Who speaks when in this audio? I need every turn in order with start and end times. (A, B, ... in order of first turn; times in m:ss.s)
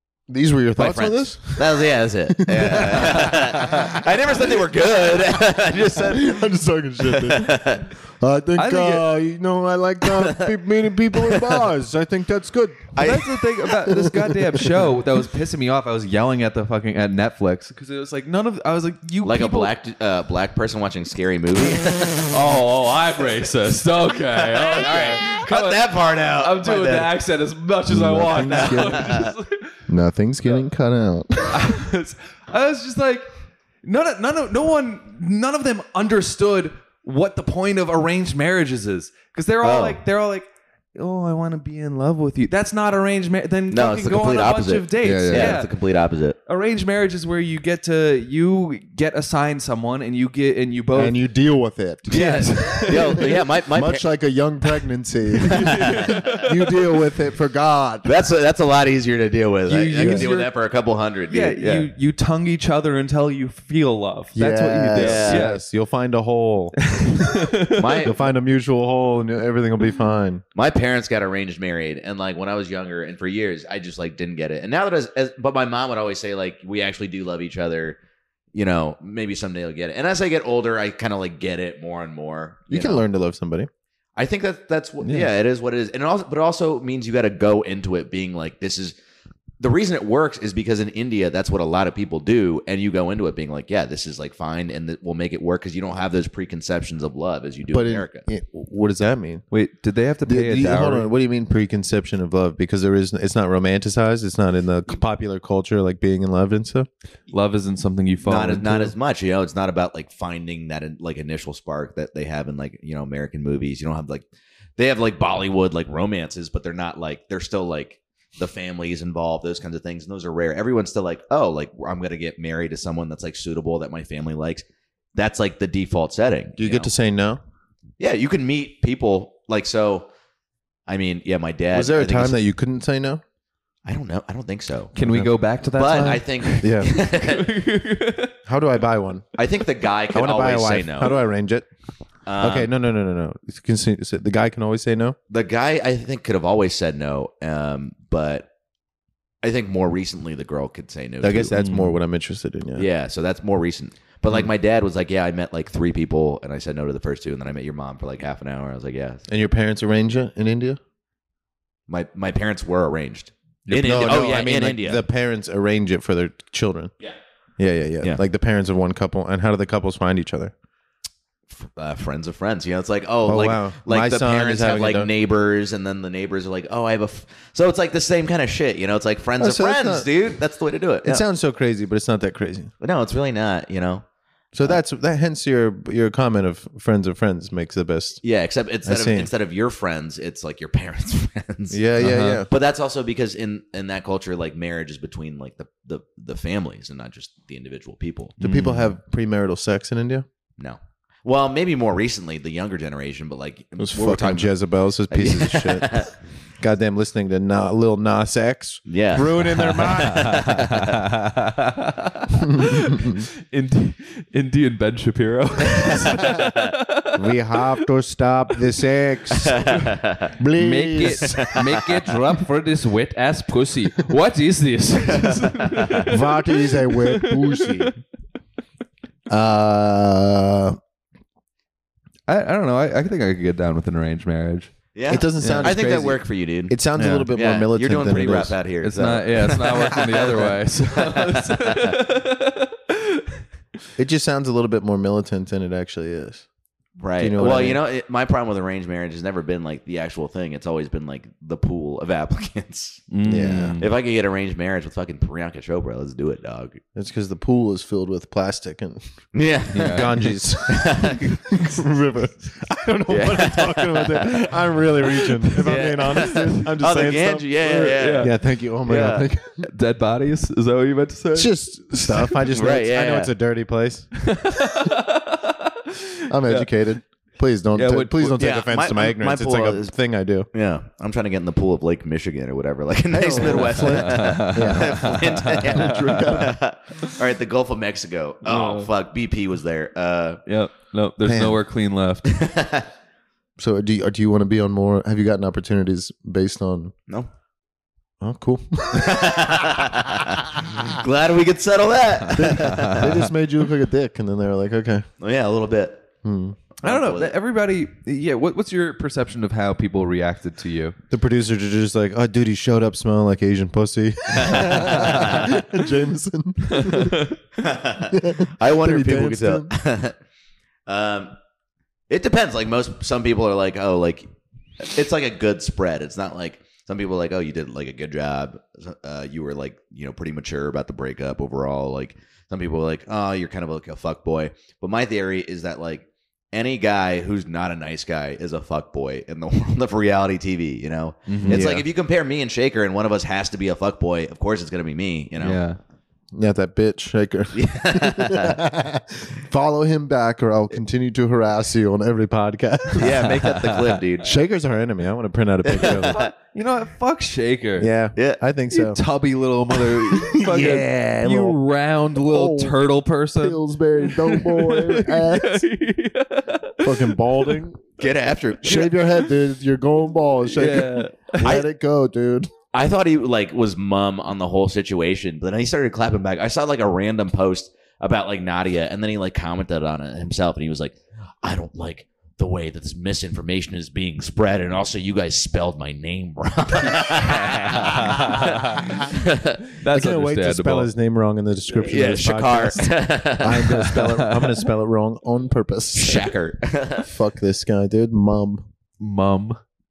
0:00.3-0:03.9 A
0:00.8-0:06.5 B
0:06.0-0:07.6 A
0:07.0-0:07.9 B
0:08.2-0:12.9 A
0:08.6-0:09.1 C
0:10.0-0:10.6 B
0:11.1-0:11.7 B
0:12.9-0:13.7 B
0:13.0-0:19.7 C
0:13.9-0:14.6 A
0:19.2-0:22.4 B
0:22.2-0:29.7 C
0:24.3-0:27.1 B
0:27.9-0:29.2 A
0:28.4-0:29.4 B
0:29.9-0:31.6 A
0:31.5-0:33.3 C
0:33.8-0:45.7 C
0:39.6-0:40.0 B
0:43.7-0:46.4 B
0:45.0-0:45.6 A
0:46.5-0:51.2 C
0:51.0-0:53.0 A
0:52.1-0:53.4 C
0:52.1-0:54.0 B
0:53.7-0:58.1 A
0:55.5-0:56.5 C
0:55.5-0:56.4 B
0:58.0-1:01.9 B
0:59.7-1:00.5 C
1:00.0-1:00.3 A
1:01.3-1:05.6 C
1:04.4-1:06.8 A
1:05.0-1:05.4 B
1:06.9-1:08.1 C
1:07.7-1:08.1 B
1:08.0-1:10.4 A
1:10.6-1:18.0 B
1:18.5-1:23.0 B
1:22.7-1:23.7 A
1:24.2-1:29.0 B
1:25.0-1:25.3 C
1:29.6-1:38.3 B
1:37.7-1:39.4 A
1:39.5-1:41.1 C
1:40.3-1:46.9 A
1:47.3-1:48.9 C
1:48.2-1:54.3 B
1:54.8-2:06.9 B
2:06.6-2:07.4 A
2:08.0-2:10.1 B
2:10.9-2:12.4 B
2:11.7-2:13.2 A
2:13.8-2:14.9 B
2:15.0-2:18.4 C
2:15.0-2:15.3 A
2:15.7-2:17.6 B
2:16.6-2:16.9 A
2:18.4-2:19.3 A
2:19.4-2:21.2 B
2:20.1-2:21.7 A
2:22.3-2:22.7 B
2:22.4-2:25.2 A
2:25.3-2:28.5 B
2:29.4-2:31.5 B
2:31.2-2:32.9 A
2:31.6-2:32.0 C
2:32.8-2:39.2 B
2:39.3-2:40.8 A
2:41.9-2:45.0 B
2:43.7-2:46.9 A
2:47.6-2:50.5 A
2:51.5-3:01.2 B
2:53.3-2:55.1 A
2:59.4-3:00.2 A
3:01.0-3:02.7 A
3:02.8-3:04.0 B
3:04.5-3:08.2 A
3:08.2-3:11.8 B
3:08.8-3:09.3 A
3:11.7-3:12.5 A
3:12.0-3:12.4 C
3:12.5-3:18.4 B
3:18.4-3:18.9 C
3:18.4-3:20.2 A
3:20.6-3:24.6 B
3:23.8-3:26.1 A
3:25.1-3:26.1 B
3:26.6-3:30.6 A
3:28.9-3:31.0 B
3:29.9-3:37.2 C
3:32.4-3:33.2 A
3:35.8-3:36.7 B
3:37.2-3:39.6 A
3:39.4-3:40.3 B
3:40.4-3:41.5 A
3:40.6-3:47.9 C
3:41.0-3:42.0 B
3:45.1-3:46.1 B
3:46.1-3:48.0 A
3:49.3-3:50.8 A
3:52.3-3:54.7 C
3:55.0-4:02.0 B
3:55.1-3:58.6 A
3:55.4-3:55.7 C
3:57.0-3:57.2 C
3:58.8-4:03.4 C
4:04.0-4:06.4 A
4:07.0-4:13.1 B
4:07.2-4:07.8 A
4:13.1-4:13.9 C
4:13.2-4:13.8 A
4:13.8-4:16.8 B
4:17.0-4:19.0 A
4:19.3-4:20.1 B
4:19.7-4:20.3 C
4:19.8-4:29.7 A
4:20.7-4:21.4 B
4:23.1-4:24.4 B
4:25.6-4:29.3 B
4:25.6-4:26.5 C
4:27.6-4:28.3 C
4:29.6-4:32.3 C
4:31.4-4:34.7 A
4:32.5-4:33.3 B
4:34.2-4:36.7 C
4:36.3-4:40.5 A
4:37.7-4:38.4 C
4:38.4-4:39.9 B
4:40.5-4:50.4 B
4:43.1-4:46.5 A
4:43.4-4:46.5 C
4:48.4-4:48.9 C
4:50.5-4:52.3 C
4:51.2-4:51.6 A
4:52.2-4:52.9 B
4:53.6-4:56.9 A
4:58.2-4:59.5 A
4:58.9-5:03.3 B
5:02.3-5:05.1 A
5:02.7-5:03.1 C
5:05.2-5:06.0 B
5:06.2-5:06.6 A
5:06.8-5:07.3 B
5:06.8-5:11.0 C
5:11.1-5:17.2 A
5:14.3-5:15.6 B
5:16.7-5:17.4 C
5:17.6-5:20.2 B
5:18.1-5:19.7 A
5:20.9-5:21.4 B
5:22.1-5:24.3 B
5:24.8-5:45.6 B
5:41.3-5:41.7 C
5:41.4-5:41.8 A
5:45.4-5:45.8 C
5:46.3-5:53.2 A
5:47.5-5:48.6 B
5:53.0-5:54.3 B
5:53.3-5:54.0 C
5:54.2-5:56.2 A
5:55.6-5:56.3 B
5:55.8-5:57.9 C
5:57.8-5:59.0 A
5:58.7-6:07.6 C
6:00.3-6:01.6 A
6:02.2-6:02.8 A
6:03.4-6:05.7 A
6:06.8-6:07.8 A
6:08.0-6:09.0 B
6:08.6-6:12.5 A
6:10.6-6:11.6 C
6:12.7-6:29.6 B
6:27.8-6:28.9 C
6:29.8-6:30.9 C
6:29.9-6:36.3 A
6:31.7-6:34.1 B
6:34.1-6:34.6 C
6:36.0-6:37.1 B
6:37.0-6:38.6 A
6:39.0-6:39.6 C